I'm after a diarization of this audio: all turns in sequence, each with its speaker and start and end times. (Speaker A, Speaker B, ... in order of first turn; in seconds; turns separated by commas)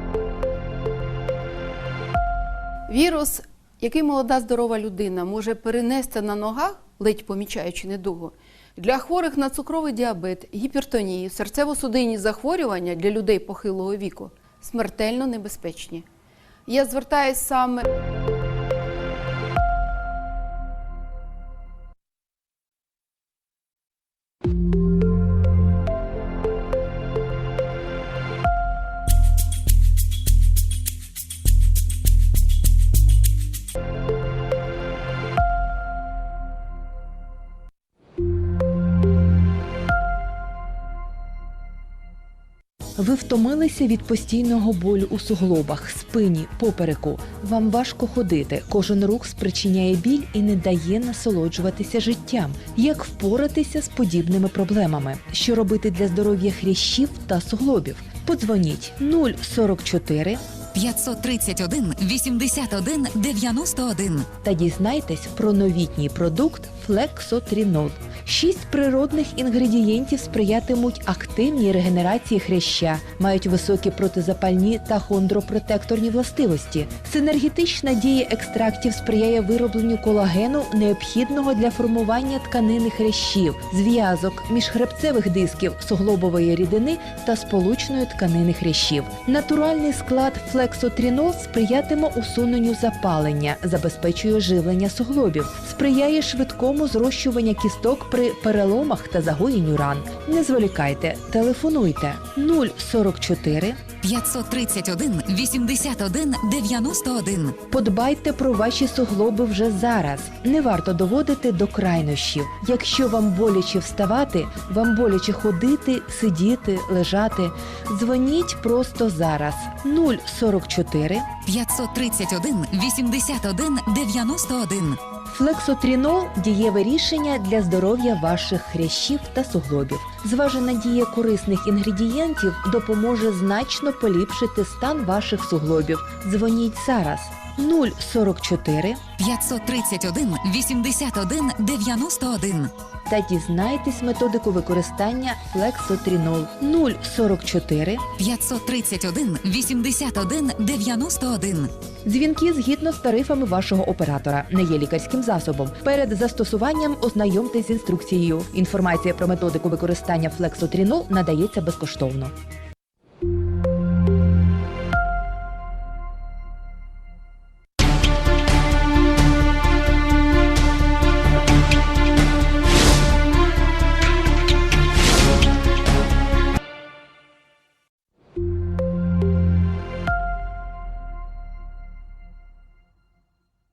Speaker A: 2.9-16.1, Speaker A: 16.7-17.8, Speaker B: 43.0-60.4, Speaker C: 60.7-64.3, Speaker B: 64.4-103.8, Speaker C: 104.0-107.6, Speaker B: 107.7-121.3, Speaker C: 121.5-125.0, Speaker B: 125.3-139.0, Speaker C: 139.2-142.7, Speaker B: 143.1-148.1, Speaker C: 148.2-151.7, Speaker B: 152.1-162.3